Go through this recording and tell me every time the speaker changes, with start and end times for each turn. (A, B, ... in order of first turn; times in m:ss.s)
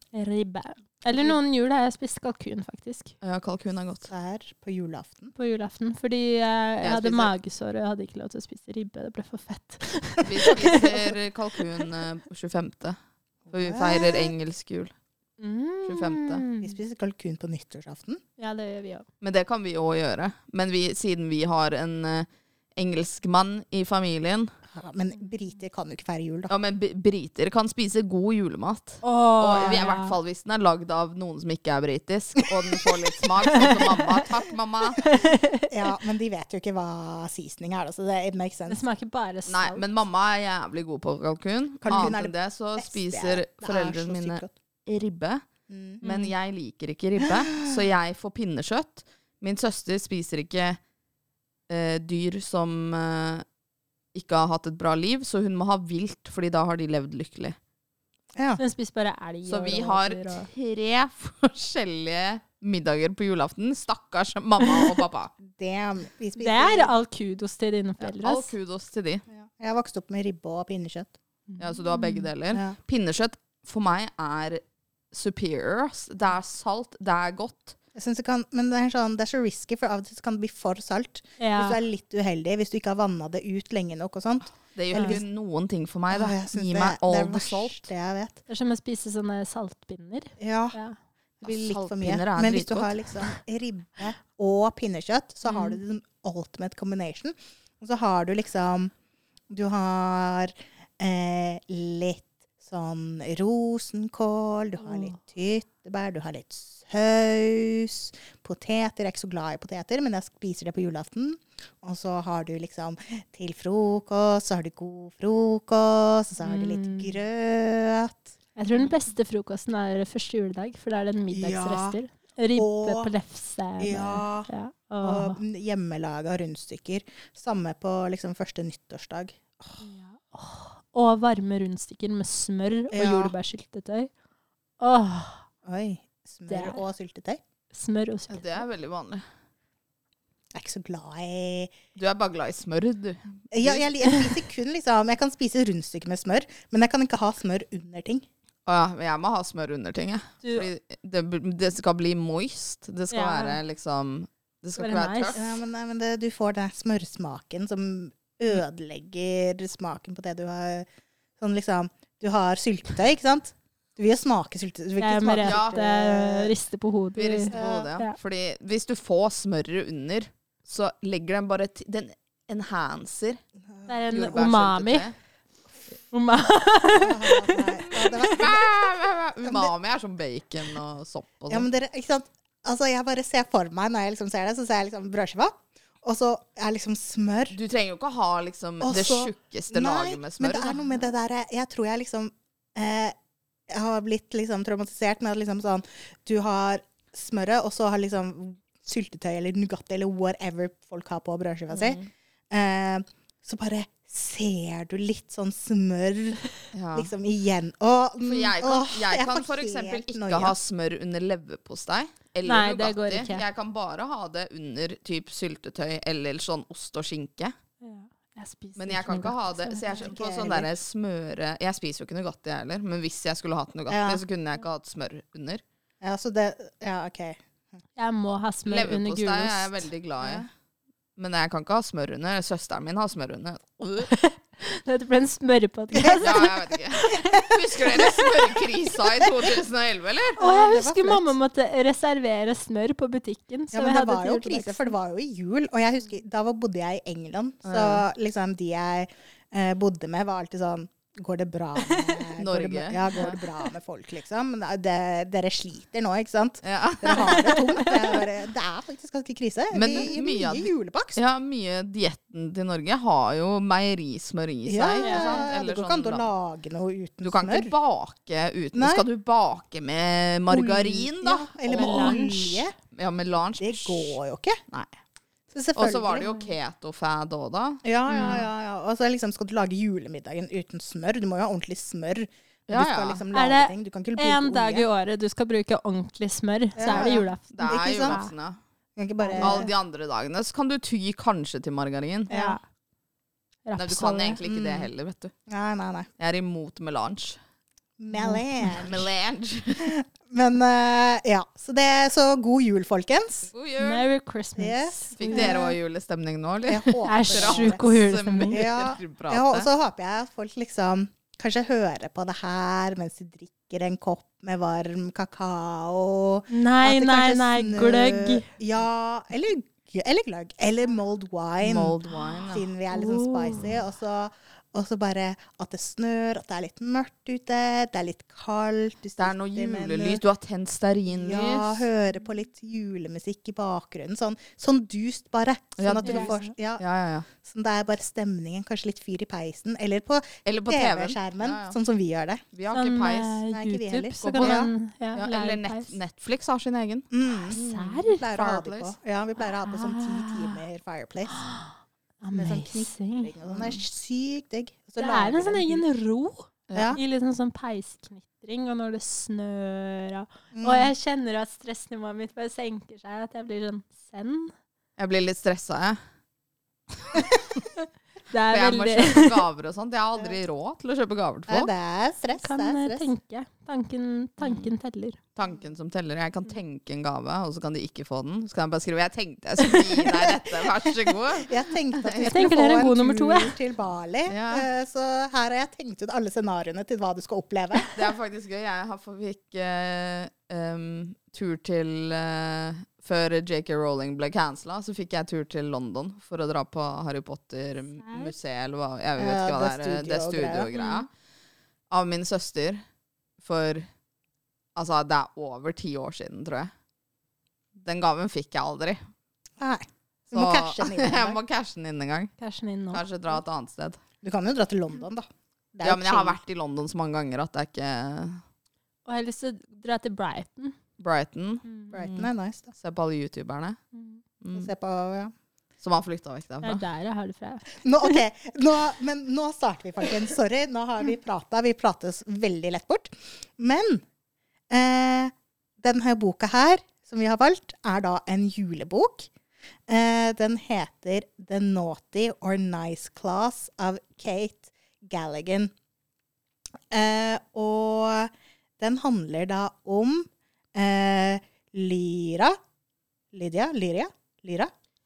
0:00.1-0:03.1 A
0:03.2-0:04.1 B
0:04.1-0:05.3 C
0:05.3-0:11.1 A
0:06.8-0:07.3 B
0:10.2-0:13.0 B
0:13.5-0:14.3 C
0:13.5-0:14.9 B
0:15.4-0:16.7 A
0:15.9-0:16.4 B
0:16.6-0:18.2 C
0:18.4-0:19.0 A
0:19.2-0:24.5 B
0:24.7-0:26.5 C
0:26.5-0:35.0 B
0:29.0-0:30.2 A
0:33.5-0:34.3 A
0:35.0-0:35.7 A
0:35.7-0:38.8 C
0:38.7-0:39.8 A
0:39.5-0:45.4 B
0:41.8-0:44.5 C
0:45.7-0:46.0 C
0:46.0-0:50.8 B
0:47.2-0:47.8 C
0:51.7-0:53.4 B
0:54.1-0:57.6 B
0:58.6-1:00.5 A
0:59.5-1:05.3 B
1:04.6-1:04.9 A
1:05.4-1:06.9 C
1:06.4-1:08.5 A
1:08.0-1:09.2 B
1:09.3-1:11.1 C
1:11.5-1:12.3 A
1:11.6-1:17.8 B
1:17.9-1:25.2 C
1:21.4-1:21.8 A
1:24.7-1:27.9 B
1:26.1-1:28.4 C
1:28.5-1:31.0 A
1:30.4-1:30.8 C
1:31.4-1:38.9 C
1:31.4-1:33.1 B
1:35.4-1:35.8 A
1:39.5-1:58.4 C
1:44.8-1:45.2 A
1:56.4-1:57.2 A
1:58.6-2:05.4 A
2:01.3-2:02.0 C
2:02.6-2:03.1 C
2:03.8-2:04.5 C
2:05.0-2:09.8 C
2:09.8-2:14.1 A
2:12.9-2:13.3 C
2:14.8-2:15.4 A
2:15.6-2:17.4 C
2:16.5-2:16.8 A
2:17.7-2:18.6 A
2:18.3-2:19.2 B
2:20.6-2:21.7 C
2:22.0-2:23.9 B
2:23.5-2:28.2 C
2:28.7-2:35.6 B
2:33.1-2:33.6 A
2:34.8-2:35.4 A
2:35.3-2:40.9 C
2:41.4-2:46.5 C
2:45.0-2:48.2 A
2:45.4-2:45.8 B
2:47.2-2:53.4 B
2:47.5-2:47.9 C
2:53.9-2:55.1 A
2:54.1-2:55.1 B
2:56.1-2:58.3 A
2:57.0-2:58.7 C
2:58.2-3:01.7 B
2:59.5-2:59.7 C
3:01.5-3:07.6 C
3:07.5-3:10.8 B
3:08.8-3:13.2 C
3:13.7-3:30.6 C
3:21.7-3:22.1 B
3:26.7-3:27.1 B
3:28.2-3:37.5 B
3:32.4-3:33.4 A
3:37.8-3:40.1 A
3:38.8-3:45.6 B
3:39.9-3:40.7 C
3:43.9-3:44.2 C
3:46.0-3:47.4 C
3:48.0-3:49.8 A
3:48.7-3:50.5 B
3:50.2-3:50.5 C
3:51.2-3:54.1 B
3:54.1-3:58.4 A
3:55.9-3:56.7 C
3:56.2-4:00.4 B
3:57.2-3:58.1 C
4:00.3-4:01.3 C
4:00.4-4:04.9 A
4:03.7-4:21.2 C
4:07.6-4:08.0 B
4:11.8-4:12.2 A
4:12.4-4:13.4 B
4:13.1-4:13.6 A
4:16.6-4:17.6 B
4:17.1-4:18.2 A
4:19.7-4:26.3 B
4:24.7-4:27.7 C
4:25.0-4:25.5 A
4:27.2-4:32.3 B
4:28.8-4:29.0 C
4:30.5-4:32.8 C
4:31.7-4:32.6 A
4:32.9-4:34.2 B
4:33.6-4:34.6 C
4:35.5-4:36.3 C
4:35.8-4:38.4 B
4:37.8-4:44.9 C
4:38.1-4:38.5 A
4:42.7-4:43.2 B
4:43.3-4:48.3 A
4:46.8-4:48.2 C
4:46.8-4:48.6 B
4:49.0-4:49.7 C
4:49.2-4:49.7 A
4:49.4-4:52.3 B
4:52.3-4:52.6 A
4:52.3-4:52.6 C
4:53.6-4:54.4 A
4:53.8-4:55.3 B
4:54.4-4:54.9 C
4:55.5-4:56.1 C
4:56.2-4:57.4 B
4:58.0-4:59.1 C
4:58.1-4:58.8 A
4:58.8-4:59.9 B
4:59.8-5:03.5 C
5:03.5-5:04.0 B
5:03.8-5:05.6 A
5:04.6-5:05.8 C
5:05.2-5:09.7 B
5:06.7-5:07.8 C
5:07.0-5:08.6 A
5:08.5-5:22.0 C
5:16.5-5:18.4 A
5:21.6-5:22.7 B
5:22.5-5:30.2 C
5:22.9-5:23.8 A
5:29.2-5:31.9 B
5:31.1-5:36.8 C
5:35.8-5:37.3 B
5:36.0-5:36.5 A
5:37.4-5:42.4 C
5:40.4-5:41.8 B
5:42.5-5:43.4 B
5:42.7-5:45.9 A
5:43.5-5:44.7 C
5:44.2-5:48.9 B
5:47.1-5:51.4 C
5:47.5-5:48.2 A
5:49.4-5:50.6 A
5:51.3-5:53.3 A
5:52.3-5:55.8 C
5:53.5-5:53.8 B
5:55.0-6:04.5 A
5:56.7-5:57.0 B
5:56.7-5:57.0 C
6:00.5-6:00.9 C
6:05.0-6:06.0 B
6:07.7-6:09.4 A
6:08.5-6:11.7 B
6:11.5-6:13.1 C
6:12.4-6:15.2 A
6:14.4-6:14.7 B
6:15.4-6:22.4 B
6:20.0-6:20.6 C
6:21.4-6:27.9 C
6:22.2-6:23.6 A
6:24.3-6:24.7 B
6:27.9-6:41.1 B
6:38.0-6:38.3 A
6:39.2-6:40.7 C
6:40.7-6:41.1 A
6:41.9-6:42.8 B
6:43.4-6:43.8 B
6:44.8-6:46.7 B
6:47.8-6:49.0 B
6:49.6-6:51.4 C
6:50.3-6:52.3 B
6:52.4-6:53.0 A
6:52.9-6:54.0 B
6:54.2-6:56.4 C
6:55.8-6:58.4 B
6:59.1-7:00.8 A
7:01.0-7:03.8 B
7:01.6-7:01.9 A
7:01.9-7:02.7 C
7:03.9-7:04.2 A
7:04.4-7:04.7 B
7:04.5-7:05.3 C
7:05.8-7:06.8 B
7:06.6-7:08.2 A
7:07.8-7:14.0 C
7:14.7-7:19.3 C
7:19.9-7:25.7 C
7:26.9-7:32.6 C
7:33.3-7:34.7 C